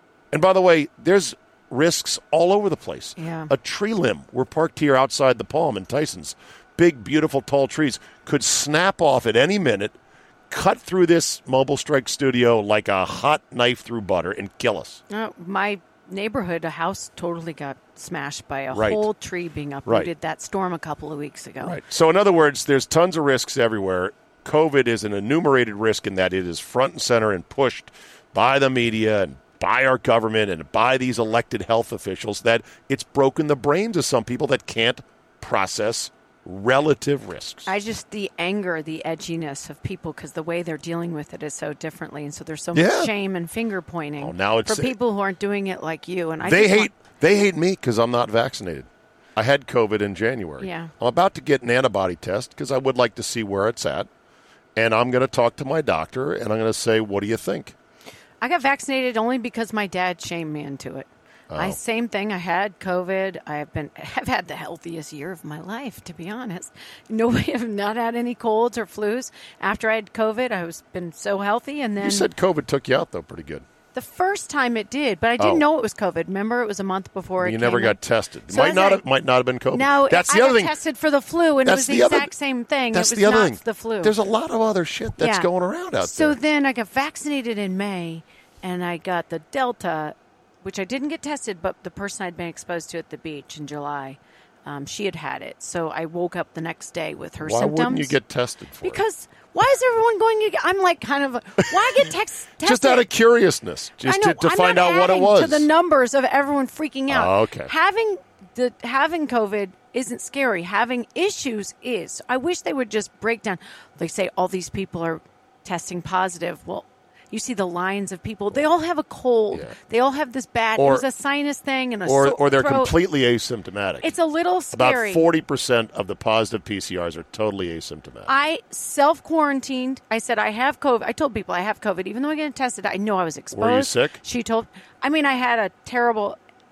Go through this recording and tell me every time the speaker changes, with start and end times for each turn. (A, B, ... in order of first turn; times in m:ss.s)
0:00.3-0:10.0 A
0:03.2-0:03.5 B
0:10.5-0:15.0 A
0:15.1-0:21.8 B
0:18.7-0:19.0 A
0:21.6-0:37.7 A
0:37.6-0:46.9 B
0:42.7-0:43.1 A
0:44.2-0:44.9 A
0:46.4-0:54.1 A
0:50.6-0:50.9 B
0:54.8-0:57.7 A
0:58.4-1:12.3 B
1:01.5-1:01.8 A
1:12.0-1:13.6 A
1:13.9-1:18.0 B
1:15.4-1:15.6 A
1:17.4-1:20.7 A
1:18.5-1:19.0 B
1:19.7-1:24.1 B
1:21.6-1:22.3 A
1:22.9-1:26.4 A
1:25.2-1:25.5 B
1:26.0-1:38.2 B
1:37.4-1:39.0 A
1:38.8-1:43.1 B
1:41.7-1:42.0 A
1:42.6-1:45.7 A
1:44.0-2:02.9 B
1:47.1-1:47.7 A
2:00.8-2:01.0 A
2:02.0-2:04.1 A
2:04.0-2:05.2 B
2:04.7-2:08.3 A
2:08.3-2:16.4 B
2:13.5-2:14.2 A